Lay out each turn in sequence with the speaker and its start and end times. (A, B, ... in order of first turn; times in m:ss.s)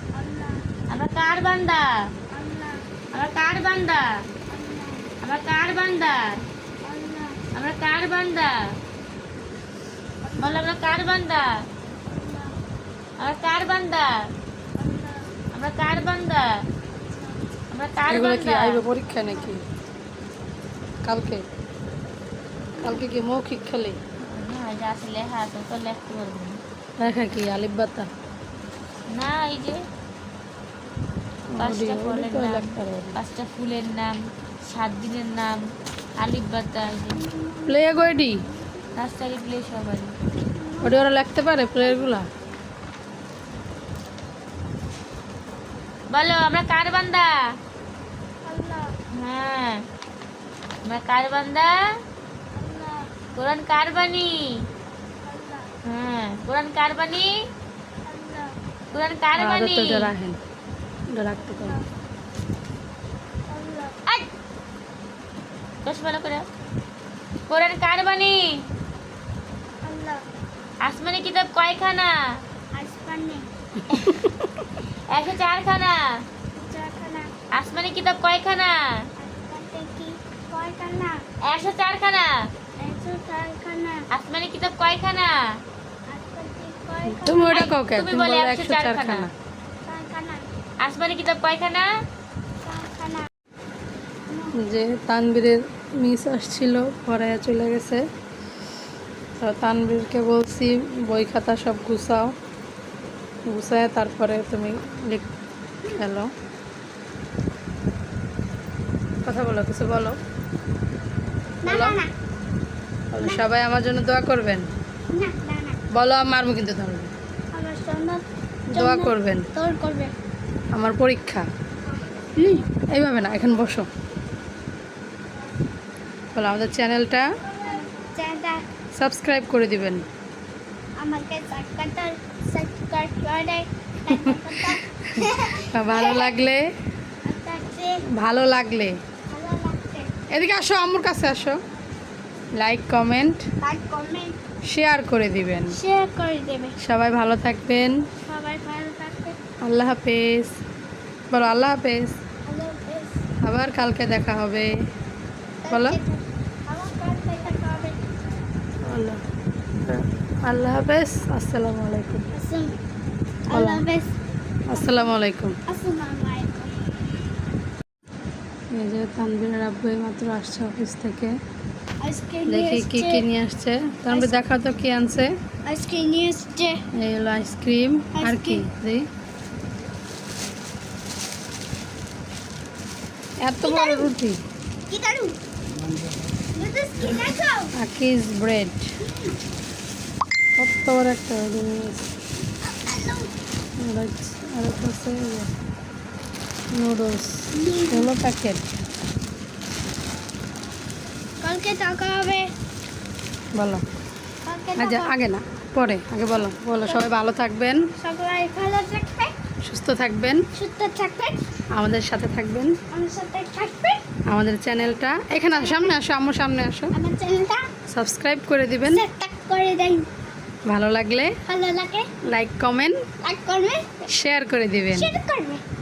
0:00.1-0:00.7 A
0:00.9-0:02.1 B
0:02.3-0:02.9 A
0:03.1-0:04.2 B
0:04.5-0:05.1 A
0:05.2-0:06.4 B
0:06.8-0:07.5 A
0:07.5-0:08.7 B
0:10.2-0:10.9 A
0:10.4-0:11.7 B
0:12.1-0:12.6 A
0:13.2-0:14.3 B
0:14.8-0:15.3 A
0:15.5-0:16.7 B
0:17.0-0:17.4 A
0:17.7-0:18.8 B
0:18.1-0:19.6 C
0:19.2-0:19.5 A
0:21.0-0:21.4 C
0:22.8-0:23.1 A
0:22.8-0:24.0 C
0:24.2-0:26.6 B
0:27.0-0:28.1 C
0:29.1-0:29.8 B
0:31.5-0:33.2 C
0:31.6-0:35.6 B
0:36.2-0:37.2 B
0:37.1-0:37.8 A
0:37.7-0:38.4 C
0:39.0-0:40.2 B
0:40.5-0:41.0 A
0:40.8-0:42.3 C
0:46.1-0:47.4 B
0:48.4-0:49.0 A
0:49.1-0:49.9 B
0:50.8-0:51.8 B
0:52.5-0:53.2 A
0:53.4-0:54.7 B
0:55.2-0:55.7 A
0:55.8-0:57.4 B
0:58.0-0:58.6 A
0:58.9-1:00.1 B
0:59.4-1:00.4 C
1:01.1-1:01.8 C
1:01.5-1:01.9 A
1:03.5-1:04.3 A
1:05.8-1:06.5 B
1:07.5-1:08.7 B
1:09.8-1:10.2 A
1:10.8-1:12.4 B
1:12.7-1:13.5 A
1:13.9-1:14.4 C
1:15.1-1:16.2 B
1:16.6-1:17.3 A
1:17.5-1:19.0 B
1:19.2-1:21.2 A
1:21.4-1:22.5 B
1:22.8-1:24.1 A
1:24.1-1:25.6 B
1:26.1-1:27.6 A
1:27.1-1:29.3 C
1:27.5-1:29.3 B
1:29.8-1:30.5 A
1:30.8-1:31.9 B
1:32.6-1:33.3 A
1:34.6-1:38.1 C
1:39.4-1:42.3 C
1:43.5-1:45.3 C
1:45.9-1:46.3 C
1:49.2-1:50.2 C
1:51.6-1:52.1 A
1:51.7-1:52.0 C
1:53.1-1:54.7 C
1:55.1-1:55.8 A
1:55.9-1:57.1 C
1:57.5-2:00.1 A
1:58.7-1:59.5 C
2:00.7-2:01.5 C
2:02.4-2:02.7 A
2:02.9-2:03.9 C
2:06.3-2:07.3 C
2:07.6-2:08.6 A
2:09.0-2:10.1 C
2:11.0-2:16.3 A
2:15.0-2:16.6 C
2:17.2-2:18.0 A
2:18.2-2:19.0 C
2:19.3-2:20.1 A
2:20.3-2:21.6 C
2:22.6-2:23.4 C
2:23.6-2:24.4 A
2:24.7-2:25.8 C
2:25.7-2:26.8 A
2:26.8-2:28.0 C
2:28.2-2:29.4 A
2:29.6-2:30.5 C
2:31.3-2:32.2 C
2:32.5-2:33.2 A
2:33.4-2:34.7 C
2:35.6-2:38.0 A
2:35.7-2:36.0 C
2:38.8-2:39.2 C
2:39.8-2:42.3 C
2:42.3-2:42.8 A
2:43.5-2:44.2 A
2:43.5-2:43.8 C
2:44.7-2:45.6 C
2:44.8-2:45.1 A
2:45.7-2:46.8 A
2:48.7-2:51.4 C
2:52.0-2:53.2 A
2:52.5-2:55.4 C
2:55.7-2:56.8 A
2:56.9-2:59.1 C
2:58.1-2:58.7 A
3:03.4-3:04.4 C
3:03.6-3:04.1 A
3:04.9-3:05.4 A
3:06.5-3:07.7 A
3:07.8-3:08.9 C
3:09.0-3:09.4 A
3:10.6-3:12.1 C
3:12.7-3:13.3 A
3:13.8-3:15.5 C
3:16.7-3:18.7 C
3:17.5-3:18.1 A
3:21.4-3:22.5 A
3:23.6-3:23.8 C
3:24.4-3:25.1 A
3:24.8-3:27.8 C
3:28.0-3:29.3 A
3:29.6-3:30.4 C
3:30.5-3:31.4 A
3:31.7-3:32.8 C
3:32.9-3:34.0 A
3:34.3-3:36.9 C
3:35.5-3:36.0 A
3:36.9-3:37.7 A
3:37.9-3:39.0 C
3:38.8-3:40.1 A
3:40.7-3:41.3 C
3:41.5-3:42.1 A
3:42.2-3:43.0 C
3:43.2-3:43.9 A
3:44.1-3:45.1 C
3:44.9-3:45.6 A